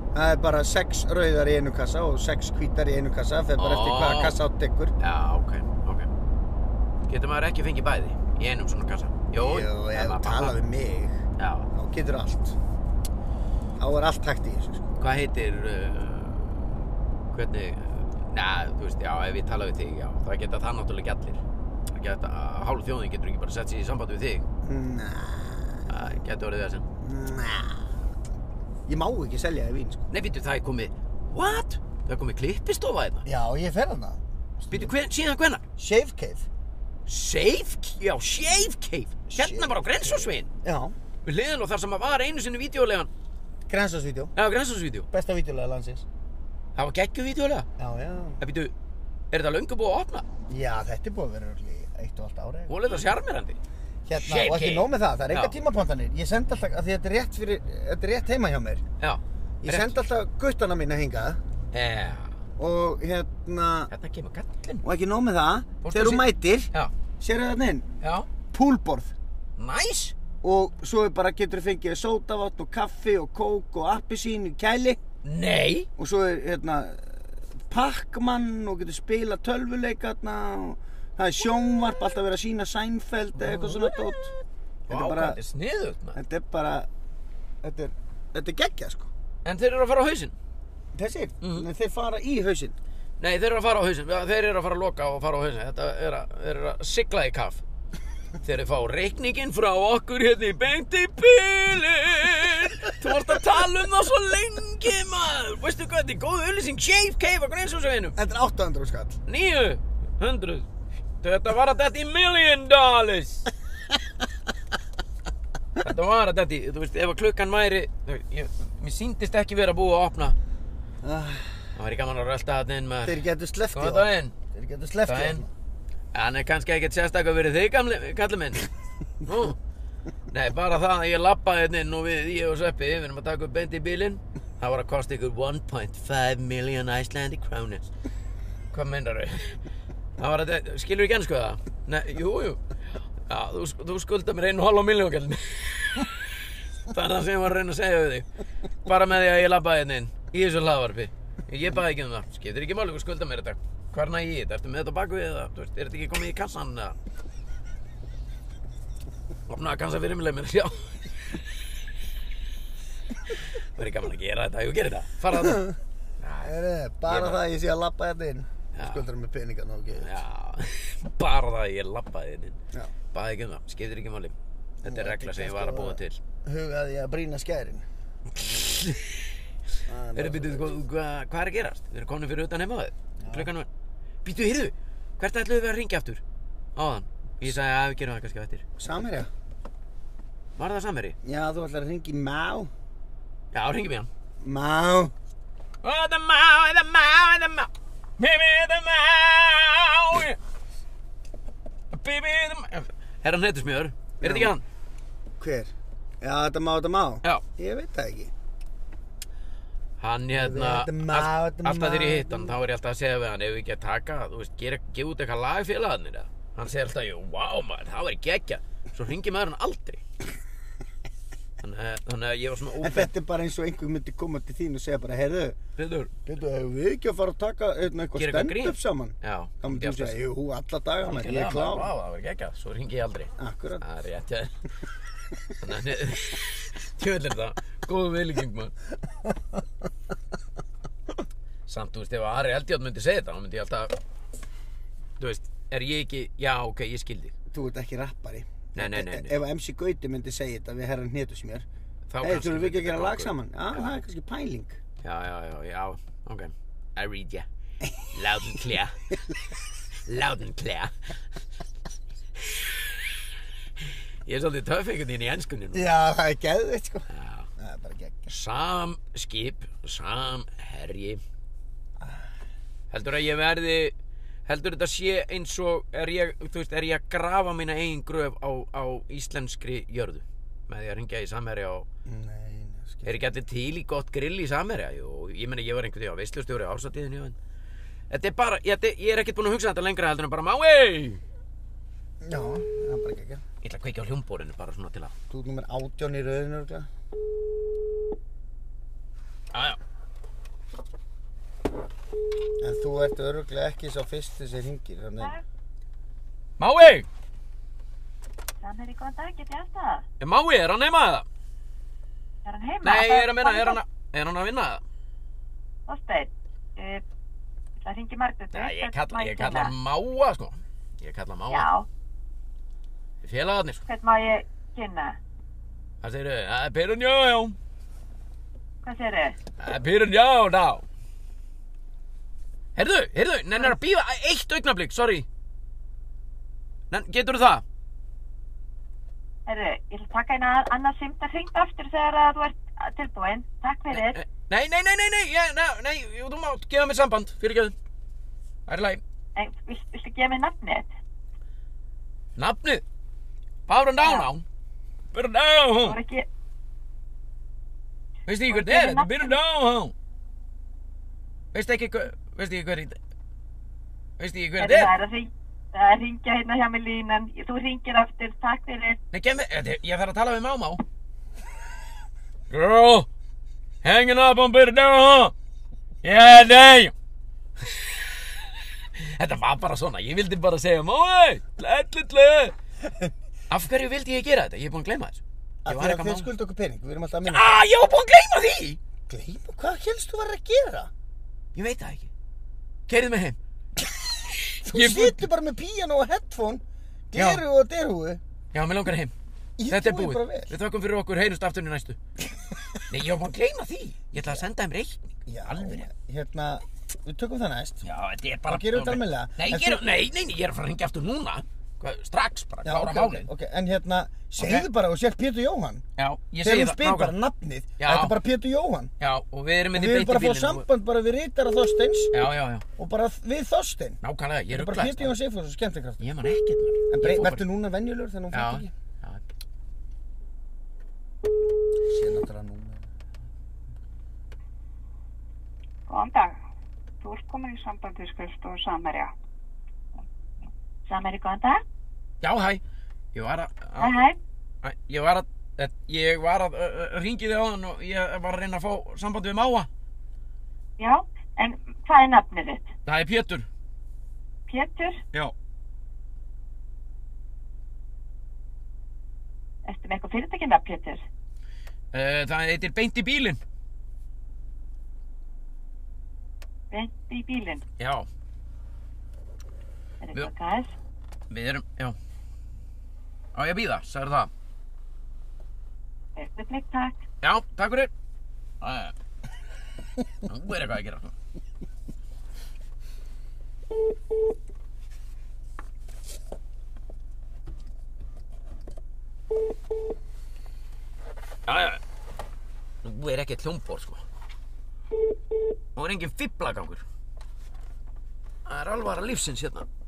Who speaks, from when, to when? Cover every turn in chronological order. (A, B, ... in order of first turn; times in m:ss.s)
0:00.1-0:04.9 A
0:03.6-0:04.4 B
0:05.0-0:06.1 B
0:07.1-0:10.6 B
0:09.3-0:12.6 A
0:11.4-0:11.7 B
0:13.8-0:14.9 A
0:15.0-0:24.4 B
0:24.6-0:25.9 A
0:25.9-0:26.8 B
0:27.0-0:27.9 A
0:28.9-0:30.0 A
0:30.1-0:33.2 B
0:33.2-0:34.9 A
0:34.7-0:35.6 B
0:35.8-0:36.4 A
0:37.0-0:40.5 B
0:39.3-0:40.9 A
0:41.2-0:43.1 B
0:43.7-0:44.3 A
0:44.4-0:45.1 B
0:45.1-0:46.0 A
0:46.8-0:47.7 B
0:47.8-0:48.4 A
0:48.4-0:48.7 B
0:49.3-0:50.2 B
0:50.5-0:52.8 A
0:52.7-0:53.6 B
0:54.0-0:58.8 A
0:54.2-0:55.6 B
0:59.0-0:59.9 B
0:59.6-1:01.4 A
1:01.7-1:02.4 B
1:02.6-1:03.9 A
1:03.9-1:04.8 B
1:04.8-1:07.9 A
1:05.8-1:06.9 B
1:08.0-1:08.3 B
1:08.5-1:09.1 A
1:09.6-1:10.1 B
1:10.4-1:15.0 A
1:15.2-1:15.9 B
1:16.0-1:24.3 A
1:23.4-1:24.0 B
1:24.9-1:26.2 B
1:24.9-1:25.4 A
1:26.1-1:26.9 A
1:27.6-1:29.1 A
1:29.4-1:30.3 B
1:30.9-1:32.8 A
1:31.4-1:31.7 B
1:33.2-1:37.6 B
1:38.4-1:48.2 B
1:48.2-1:49.2 A
1:49.2-1:50.7 B
1:51.2-1:53.5 B
1:55.8-2:00.4 B
2:01.0-2:01.7 A
2:01.7-2:04.3 B
2:03.0-2:05.5 A
2:05.1-2:05.4 B
2:06.1-2:08.7 B
2:09.2-2:09.6 B
2:10.3-2:17.9 B
2:18.7-2:19.6 B
2:20.2-2:28.3 B
2:28.8-2:36.9 B
2:39.5-2:40.9 B
2:43.7-2:45.7 B
2:45.4-2:45.8 A
2:46.2-2:46.5 B
2:46.4-2:50.2 A
2:47.0-2:47.4 B
2:48.7-2:49.1 B
2:49.9-2:52.6 B
2:53.1-2:54.3 B
2:54.8-2:57.8 A
2:54.8-2:56.2 B
2:58.4-2:59.4 B
2:59.9-3:00.7 A
3:00.1-3:03.7 B
3:03.2-3:03.5 A
3:04.2-3:06.2 B
3:06.8-3:08.6 B
3:08.8-3:09.3 A
3:10.6-3:11.2 B
3:11.2-3:12.7 A
3:13.5-3:14.1 B
3:14.4-3:15.1 A
3:15.8-3:20.4 B
3:21.9-3:24.6 B
3:24.2-3:24.5 A
3:25.4-3:28.3 A
3:30.0-3:40.0 B
3:30.4-3:32.6 A
3:41.6-3:43.1 B
3:42.8-3:45.6 A
3:45.8-3:46.1 B
3:46.2-3:51.9 A
3:48.2-3:50.2 B
3:51.0-3:54.5 B
3:53.4-3:53.8 A
3:55.6-3:58.7 B
4:01.7-4:03.9 B
4:05.2-4:07.3 B
4:07.5-4:11.6 A
4:08.7-4:09.4 B
4:12.1-4:14.0 B
4:12.2-4:14.8 A
4:15.0-4:17.5 B
4:17.8-4:18.1 A
4:18.0-4:19.4 B
4:19.9-4:20.9 B
4:22.4-4:23.2 B
4:23.8-4:25.9 B
4:25.7-4:28.3 A
4:27.1-4:27.5 B
4:28.3-4:31.2 B
4:32.0-4:32.3 A
4:32.9-4:33.9 B
4:34.4-4:41.8 B
4:42.0-4:43.2 A
4:43.0-4:47.4 B
4:48.1-4:51.2 B
4:52.2-4:53.4 A
4:53.6-4:55.1 B
4:55.3-4:56.9 A
4:59.5-4:59.8 B
5:02.6-5:05.3 A
5:06.6-5:07.0 B
5:08.6-5:10.0 C
5:10.2-5:11.2 B
5:12.4-5:13.8 C
5:12.8-5:14.8 B
5:15.9-5:17.0 C
5:17.8-5:19.7 C
5:18.5-5:21.7 B
5:21.5-5:21.9 C
5:23.2-5:23.8 B
5:23.8-5:25.2 C
5:26.0-5:27.6 B
5:28.8-5:29.4 C
5:29.6-5:30.8 B
5:32.8-5:35.2 B
5:36.9-5:37.6 B
5:39.4-5:44.2 C
5:43.9-5:47.7 B
5:48.7-5:49.0 B
5:49.4-5:50.9 C
5:52.4-5:52.8 B
5:53.7-5:54.4 B
5:54.0-5:54.3 C
5:55.1-5:56.0 B
5:55.8-5:56.2 C
5:58.3-5:59.9 B
5:58.5-5:59.4 C
6:01.5-6:03.0 B
6:04.2-6:04.9 B
6:04.6-6:09.0 C
6:09.1-6:10.8 B
6:12.5-6:13.1 B
6:13.8-6:15.3 B
6:16.0-6:16.9 B
6:17.6-6:22.5 B
6:23.5-6:26.3 B
6:25.6-6:27.5 A
6:27.2-6:28.8 B
6:29.1-6:30.9 A
6:31.5-6:32.1 B
6:32.9-6:33.4 B
6:34.5-6:35.3 B
6:34.6-6:38.2 A
6:37.1-6:37.4 B
6:38.5-6:39.1 B
6:39.6-6:40.5 A
6:39.7-6:42.0 B
6:42.9-6:45.9 B
6:44.1-6:44.4 A
6:45.3-6:47.8 A
6:47.8-6:53.3 B
6:48.5-6:49.8 A
6:52.6-6:55.8 A
6:54.4-6:54.7 B
6:56.0-6:57.1 B
6:56.4-6:58.9 A
6:57.8-6:58.1 B
6:59.0-7:00.6 B
6:59.7-7:02.1 A
7:02.1-7:02.6 B
7:02.8-7:04.0 A
7:04.0-7:05.2 B
7:04.5-7:06.0 A
7:06.0-7:07.4 B
7:06.9-7:08.7 A
7:08.3-7:09.2 B
7:11.8-7:12.8 A
7:15.9-7:16.4 D
7:17.0-7:19.1 D
7:20.9-7:21.6 C
7:22.2-7:22.6 B
7:23.1-7:24.0 B
7:23.8-7:24.2 C
7:24.6-7:29.7 B
7:30.8-7:32.7 C
7:32.8-7:33.5 B
7:34.5-7:35.0 C
7:39.6-7:41.0 C
7:41.9-7:43.4 B
7:46.7-7:47.6 C
7:47.8-7:48.0 B
7:50.0-7:50.7 C
7:51.3-7:52.0 B
7:53.3-7:54.3 B
7:56.2-7:57.0 C
7:57.2-7:57.9 B
7:58.6-7:58.9 B
8:00.2-8:01.1 B
8:11.5-8:11.8 B
8:12.8-8:14.0 B
8:15.8-8:16.8 B
8:18.4-8:19.7 B